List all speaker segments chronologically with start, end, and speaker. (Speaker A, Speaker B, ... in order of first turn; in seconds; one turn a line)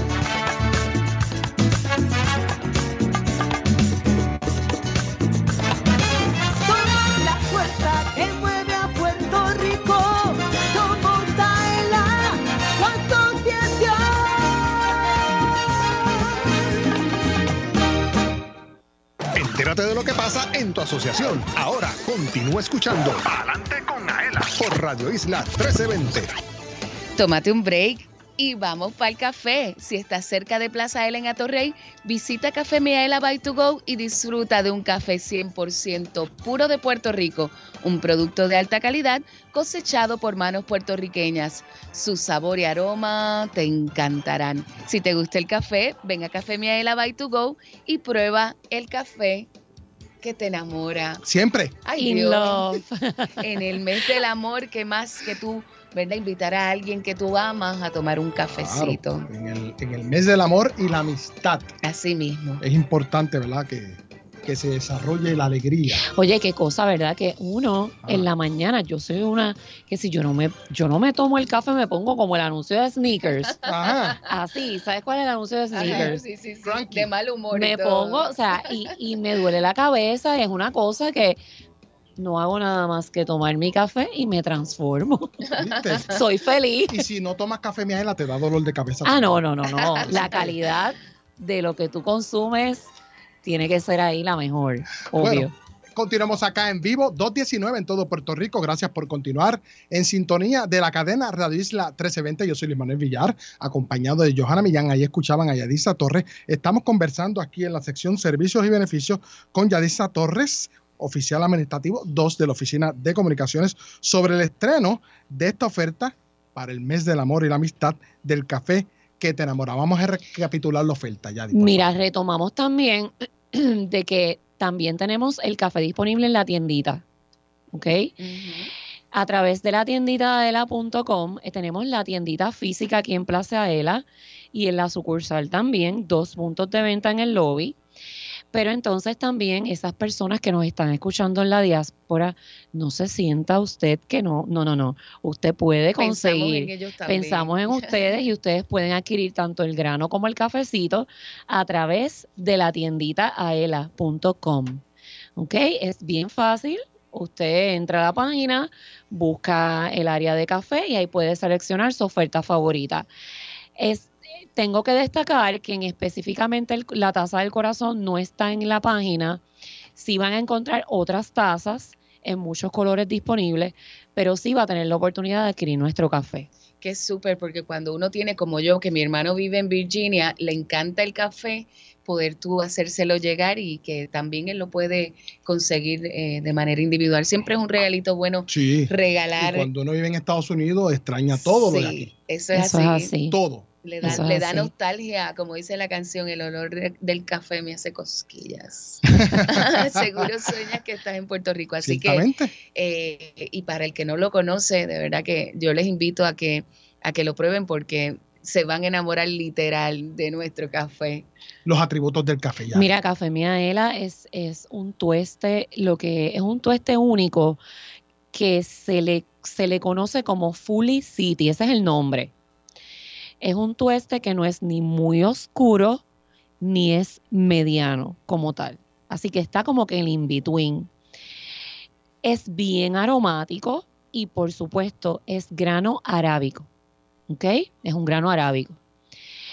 Speaker A: 6.6-14.8
Speaker B: 19.4-26.3
Speaker C: 27.2-49.5
Speaker C: 50.2-51.2
Speaker D: 51.2-51.8
Speaker C: 51.9-52.8
Speaker E: 52.0-53.4
Speaker C: 53.4-59.3
Speaker D: 58.5-61.7
Speaker C: 61.8-62.6
Speaker D: 62.6-66.0
Speaker E: 66.1-73.6
Speaker D: 73.7-74.2
Speaker C: 73.9-74.1
Speaker E: 74.3-76.2
Speaker C: 75.7-78.7
Speaker D: 75.8-76.1
Speaker D: 76.6-77.1
Speaker E: 77.5-81.4
Speaker E: 82.2-85.4
Speaker D: 85.6-86.2
Speaker E: 86.1-87.0
Speaker D: 86.9-89.4
Speaker E: 89.0-92.9
Speaker C: 90.0-90.4
Speaker D: 90.1-90.5
Speaker E: 93.4-95.5
Speaker D: 95.1-121.9
Speaker E: 121.5-127.0
Speaker E: 127.7-128.1
Speaker C: 128.2-128.7
Speaker E: 129.1-137.8
Speaker E: 138.5-154.8
Speaker C: 146.0-148.0
Speaker E: 155.4-163.1
Speaker E: 163.8-169.4
Speaker E: 170.0-176.5
Speaker C: 176.8-189.7
Speaker D: 188.5-192.1
Speaker C: 191.4-193.1
Speaker E: 192.5-193.4
Speaker D: 193.3-194.2
Speaker C: 193.8-211.3
Speaker E: 194.0-194.7
Speaker D: 199.1-199.9
Speaker D: 201.8-202.5
Speaker D: 211.7-212.9
Speaker E: 212.7-217.6
Speaker E: 218.3-222.3
Speaker E: 223.4-226.0
Speaker E: 226.6-230.9
Speaker E: 232.2-236.7
Speaker E: 237.3-238.8